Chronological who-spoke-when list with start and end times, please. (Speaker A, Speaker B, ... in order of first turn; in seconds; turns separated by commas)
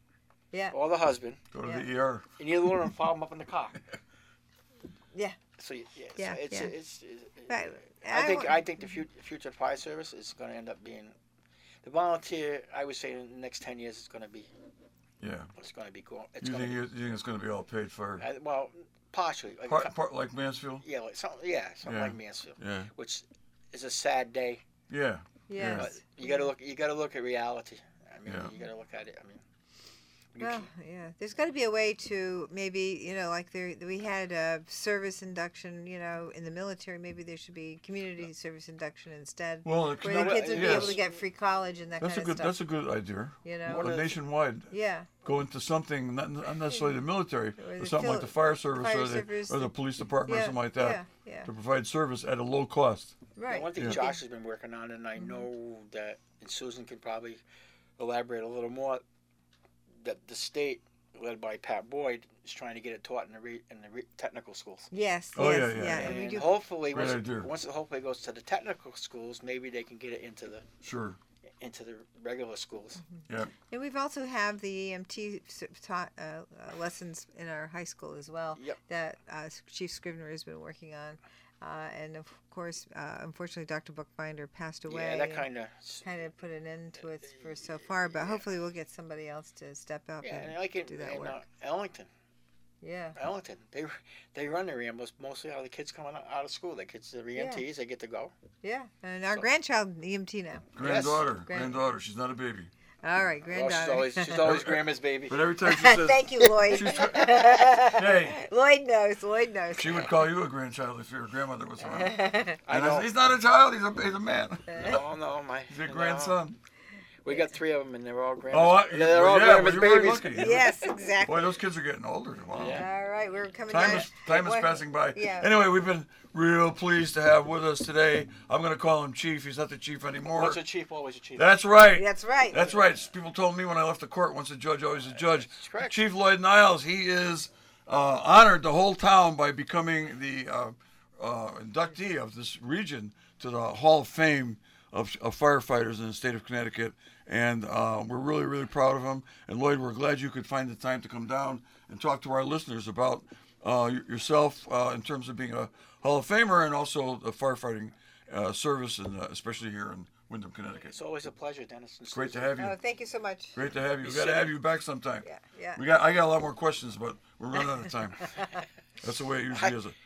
Speaker A: 0.7-1.4, Speaker B: 1.5-2.2, Speaker A: 2.4-3.8, Speaker A: 5.6-11.1, Speaker C: 6.2-6.7, Speaker C: 7.5-8.9, Speaker A: 11.8-14.5, Speaker B: 15.2-15.5, Speaker A: 15.6-16.8, Speaker B: 16.4-18.2, Speaker A: 18.2-19.9, Speaker B: 19.7-20.8, Speaker A: 20.8-24.6, Speaker B: 21.8-22.9, Speaker B: 24.9-25.9, Speaker C: 25.5-26.5, Speaker A: 25.7-29.4, Speaker B: 28.2-28.5, Speaker A: 30.3-30.7, Speaker C: 30.4-42.5, Speaker B: 39.6-41.0, Speaker A: 40.0-41.1, Speaker B: 42.0-44.7, Speaker C: 43.4-43.9, Speaker A: 43.6-44.2, Speaker C: 44.7-45.1, Speaker B: 45.2-53.2, Speaker C: 47.6-49.7, Speaker C: 50.2-51.5, Speaker C: 53.4-54.2, Speaker A: 53.5-57.4, Speaker C: 55.2-55.5, Speaker A: 58.0-59.0, Speaker A: 60.0-64.9, Speaker C: 64.9-66.5, Speaker B: 65.3-67.5, Speaker A: 65.9-70.7, Speaker B: 70.8-71.2, Speaker A: 71.6-73.0, Speaker C: 73.2-85.5, Speaker B: 73.3-73.5, Speaker A: 84.9-86.0, Speaker C: 86.0-91.4, Speaker A: 88.0-88.4, Speaker A: 90.2-92.1, Speaker C: 92.8-93.2, Speaker A: 93.2-98.3, Speaker C: 97.3-97.6, Speaker C: 98.6-100.7, Speaker B: 100.7-102.7, Speaker A: 100.8-101.2, Speaker C: 101.4-101.8, Speaker C: 103.0-104.4, Speaker A: 103.5-105.4, Speaker B: 104.4-108.4, Speaker C: 105.6-110.1, Speaker A: 106.9-107.3, Speaker B: 109.7-115.0, Speaker C: 111.8-112.6, Speaker A: 112.7-113.1, Speaker C: 114.7-115.0, Speaker A: 114.8-116.4, Speaker B: 115.7-116.6, Speaker A: 117.2-120.9, Speaker B: 118.5-120.6, Speaker C: 120.3-121.6, Speaker B: 121.2-122.9, Speaker A: 122.5-122.9, Speaker C: 122.7-125.5, Speaker B: 123.7-130.6, Speaker A: 130.3-131.5, Speaker B: 131.4-160.9, Speaker C: 131.9-132.7, Speaker A: 135.1-136.0, Speaker A: 160.9-162.5, Speaker B: 162.1-162.8, Speaker C: 162.6-163.6, Speaker B: 163.5-168.3, Speaker A: 164.0-164.6, Speaker C: 165.2-165.8, Speaker C: 168.2-168.5, Speaker B: 169.0-169.9, Speaker A: 169.5-169.8